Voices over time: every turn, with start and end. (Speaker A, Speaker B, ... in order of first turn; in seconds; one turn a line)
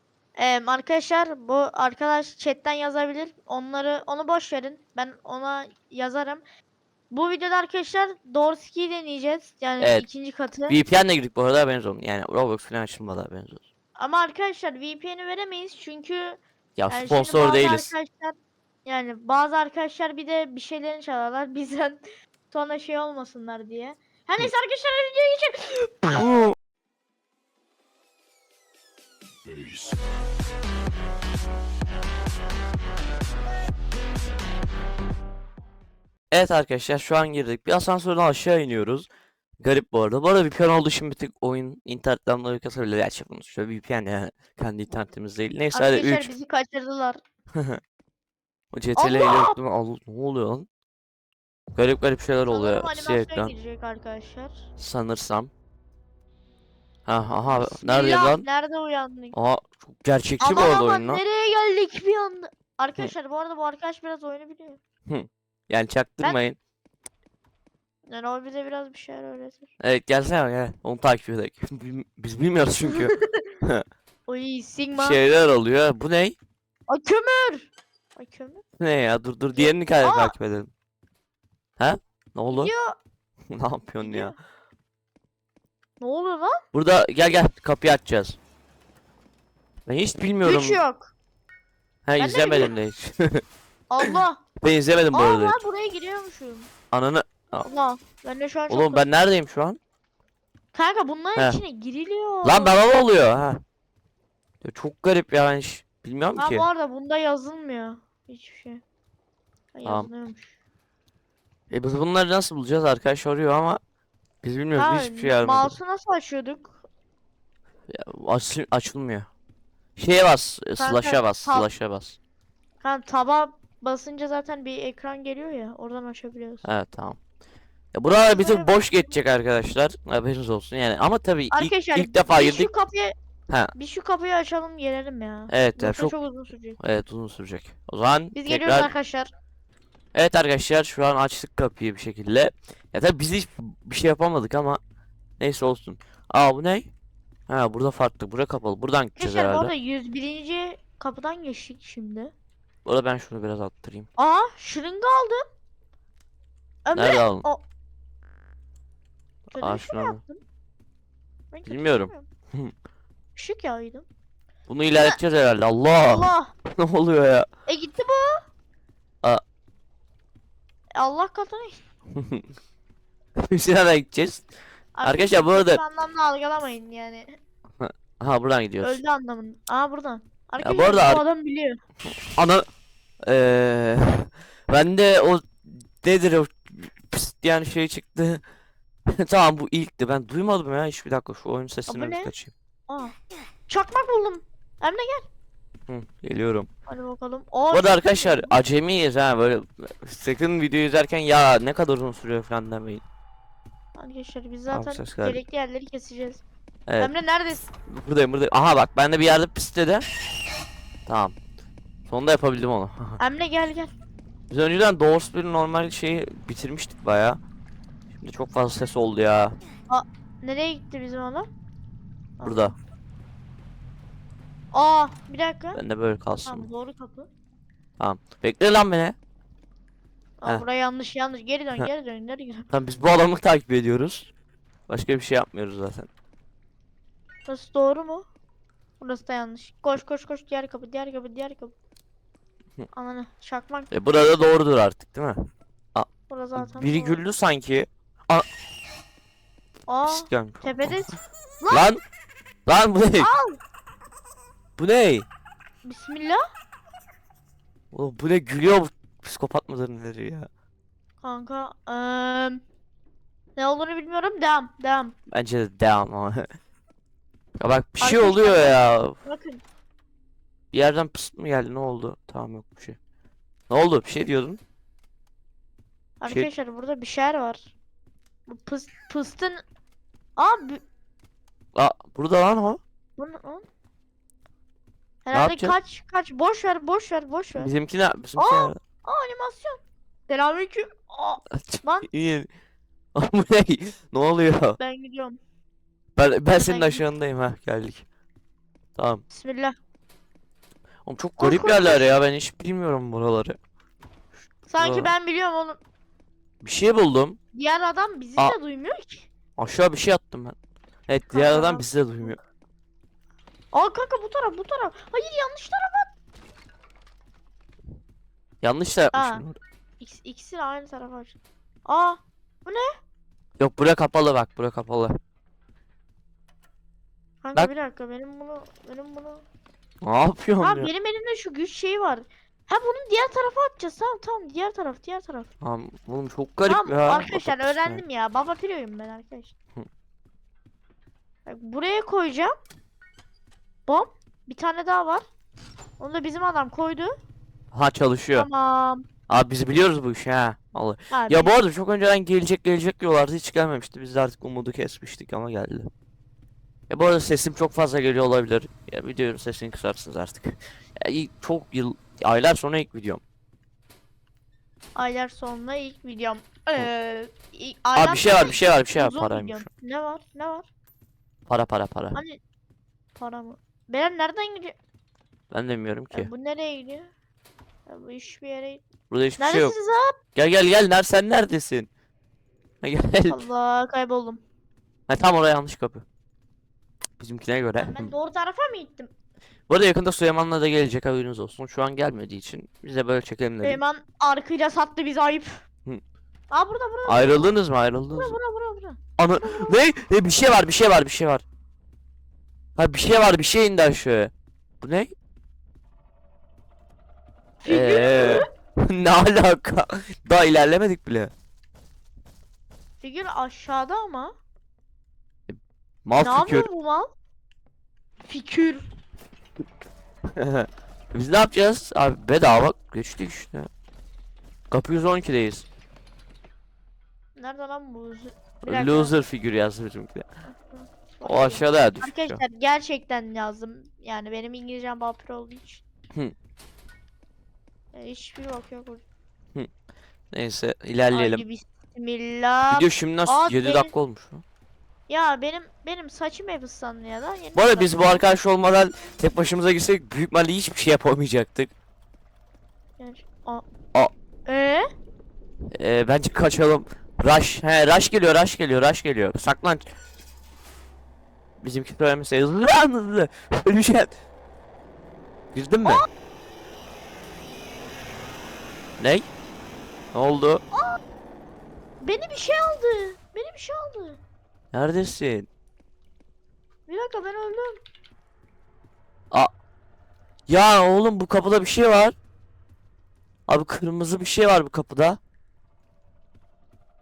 Speaker A: 0.4-6.4
Speaker A: 7.1-10.8
Speaker B: 9.8-10.1
Speaker B: 10.7-13.6
Speaker A: 14.0-26.3
Speaker B: 16.8-17.9
Speaker B: 26.1-26.5
Speaker B: 36.3-39.1
Speaker B: 39.6-46.3
Speaker A: 45.7-47.2
Speaker B: 48.7-50.7
Speaker A: 49.0-49.6
Speaker B: 51.7-53.5
Speaker A: 52.5-54.6
Speaker B: 54.8-55.5
Speaker B: 57.1-58.5
Speaker A: 57.4-59.4
Speaker B: 59.3-61.2
Speaker A: 60.4-64.8
Speaker B: 65.1-66.6
Speaker A: 68.1-69.7
Speaker B: 69.8-73.8
Speaker A: 72.9-73.4
Speaker A: 74.3-75.2
Speaker B: 74.9-76.4
Speaker A: 76.9-78.6
Speaker B: 78.8-80.7
Speaker A: 79.5-80.3
Speaker B: 81.8-82.7
Speaker A: 82.5-83.0
Speaker B: 83.5-84.3
Speaker A: 84.0-84.3
Speaker A: 86.0-86.6
Speaker B: 86.7-88.4
Speaker B: 89.8-90.8
Speaker A: 90.4-91.1
Speaker B: 92.0-93.4
Speaker A: 92.2-92.7
Speaker A: 93.9-94.4
Speaker B: 94.0-95.6
Speaker A: 95.1-96.7
Speaker B: 96.9-97.7
Speaker A: 97.6-99.0
Speaker B: 98.7-99.8
Speaker A: 100.7-102.8
Speaker B: 102.4-103.6
Speaker B: 104.6-106.7
Speaker A: 106.4-108.8
Speaker A: 109.7-110.5
Speaker B: 109.8-110.1
Speaker B: 111.7-113.8
Speaker B: 114.4-115.8
Speaker A: 114.7-116.8
Speaker B: 117.9-119.3
Speaker B: 120.0-122.2
Speaker A: 120.8-121.7
Speaker A: 122.8-126.6
Speaker B: 126.6-127.2
Speaker B: 127.9-132.7
Speaker A: 128.2-128.8
Speaker A: 131.5-133.1
Speaker A: 133.7-136.8
Speaker B: 135.5-136.1
Speaker B: 136.8-138.9
Speaker A: 138.3-139.3
Speaker B: 140.1-144.8
Speaker B: 145.4-146.9
Speaker B: 147.5-149.7
Speaker A: 149.2-152.3
Speaker B: 152.8-154.1
Speaker A: 154.2-155.4
Speaker A: 156.8-157.6
Speaker B: 156.9-157.4
Speaker A: 159.5-160.4
Speaker B: 159.6-160.2
Speaker A: 161.5-162.3
Speaker B: 161.7-162.7
Speaker A: 163.3-164.1
Speaker B: 164.7-167.5
Speaker A: 166.1-166.5
Speaker A: 167.7-168.4
Speaker A: 170.9-171.7
Speaker B: 172.1-172.4
Speaker B: 173.4-174.5
Speaker A: 174.9-177.3
Speaker B: 175.0-175.8
Speaker B: 177.8-179.0
Speaker A: 178.8-181.8
Speaker B: 180.6-181.2
Speaker B: 182.3-182.6
Speaker B: 183.2-188.4
Speaker B: 189.1-192.5
Speaker A: 191.9-192.3
Speaker A: 192.9-193.1
Speaker A: 193.7-195.3
Speaker B: 195.9-196.7
Speaker A: 196.9-198.5
Speaker B: 197.7-203.0
Speaker A: 204.0-206.4
Speaker B: 204.7-205.4
Speaker B: 206.9-207.1
Speaker A: 207.0-207.7
Speaker B: 207.8-210.0
Speaker B: 211.1-211.3
Speaker B: 212.1-213.2
Speaker A: 213.2-213.9
Speaker B: 214.5-217.4
Speaker B: 218.2-219.6
Speaker A: 219.9-221.5
Speaker A: 222.4-222.7
Speaker B: 222.4-222.7
Speaker A: 224.7-225.8
Speaker B: 225.7-226.7
Speaker A: 226.4-227.3
Speaker B: 228.0-229.2
Speaker A: 230.4-232.7
Speaker B: 232.7-234.3
Speaker B: 234.9-236.1
Speaker A: 237.5-238.2
Speaker A: 239.0-241.7
Speaker A: 242.9-243.9
Speaker B: 243.9-245.4
Speaker B: 245.9-248.4
Speaker A: 246.3-247.2
Speaker A: 249.9-251.9
Speaker B: 250.1-251.1
Speaker B: 251.7-252.0
Speaker B: 252.7-253.3
Speaker A: 253.2-253.6
Speaker B: 254.8-255.2
Speaker A: 255.8-256.4
Speaker B: 257.9-260.5
Speaker A: 261.2-262.6
Speaker A: 263.6-265.1
Speaker B: 265.3-266.5
Speaker B: 267.6-269.1
Speaker A: 268.0-269.6
Speaker B: 270.7-273.0
Speaker B: 273.7-274.6
Speaker A: 276.2-277.7
Speaker A: 278.5-279.6
Speaker A: 280.4-280.8
Speaker B: 281.7-282.8
Speaker A: 283.2-283.6
Speaker A: 285.2-287.7
Speaker B: 285.3-285.8
Speaker B: 287.6-288.8
Speaker A: 288.4-292.1
Speaker B: 291.6-292.5
Speaker B: 293.1-294.8
Speaker A: 294.8-295.4
Speaker B: 296.1-298.0
Speaker A: 296.6-297.0
Speaker B: 299.0-299.2
Speaker A: 299.3-299.7
Speaker B: 301.0-303.6
Speaker A: 301.4-302.1
Speaker A: 304.7-305.8
Speaker B: 304.8-305.1
Speaker B: 306.6-307.4
Speaker A: 307.5-309.3
Speaker B: 309.6-310.6
Speaker B: 311.1-312.4
Speaker A: 311.3-312.4
Speaker A: 313.7-316.1
Speaker B: 318.6-319.6
Speaker A: 319.1-319.4
Speaker A: 320.0-322.9
Speaker B: 323.6-325.2
Speaker A: 327.4-329.4
Speaker B: 330.0-330.9
Speaker A: 330.6-335.5
Speaker B: 335.6-338.0
Speaker A: 336.6-339.5
Speaker A: 341.4-342.5
Speaker A: 343.9-345.2
Speaker A: 346.0-347.1
Speaker B: 347.7-348.5
Speaker A: 348.4-349.1
Speaker B: 349.3-355.9
Speaker A: 351.1-351.5
Speaker B: 356.9-363.2
Speaker A: 364.9-370.7
Speaker B: 367.9-369.7
Speaker B: 371.5-372.2
Speaker A: 372.1-372.4
Speaker A: 373.1-374.8
Speaker B: 375.5-376.3
Speaker A: 376.1-377.1
Speaker A: 377.9-378.8
Speaker B: 379.1-379.7
Speaker A: 379.4-380.1
Speaker B: 380.3-381.9
Speaker B: 382.8-383.4
Speaker A: 383.3-384.4
Speaker B: 385.1-386.0
Speaker B: 387.2-388.1
Speaker A: 387.8-389.1
Speaker B: 389.7-393.8
Speaker A: 393.6-395.6
Speaker A: 396.5-397.5
Speaker B: 397.1-398.4
Speaker A: 398.1-399.8
Speaker B: 399.2-401.4
Speaker B: 402.8-405.1
Speaker A: 407.6-408.5
Speaker B: 407.6-411.3
Speaker A: 413.0-414.3
Speaker B: 415.5-416.7
Speaker A: 416.2-417.1
Speaker A: 418.2-418.9
Speaker B: 420.4-423.7
Speaker B: 424.7-425.6
Speaker A: 427.4-429.1
Speaker B: 428.6-430.2
Speaker A: 430.5-435.8
Speaker B: 431.2-432.4
Speaker A: 437.9-439.0
Speaker B: 440.3-441.4
Speaker A: 441.1-443.9
Speaker B: 442.7-444.4
Speaker A: 445.1-448.2
Speaker B: 447.5-451.7
Speaker A: 453.0-453.6
Speaker A: 454.4-454.9
Speaker B: 455.8-459.9
Speaker B: 461.6-464.1
Speaker B: 465.5-466.0
Speaker B: 469.0-469.3
Speaker B: 470.1-470.6
Speaker A: 470.7-471.0
Speaker A: 472.0-474.2
Speaker B: 474.7-475.5
Speaker A: 476.9-477.8
Speaker B: 480.5-482.1
Speaker B: 483.5-485.2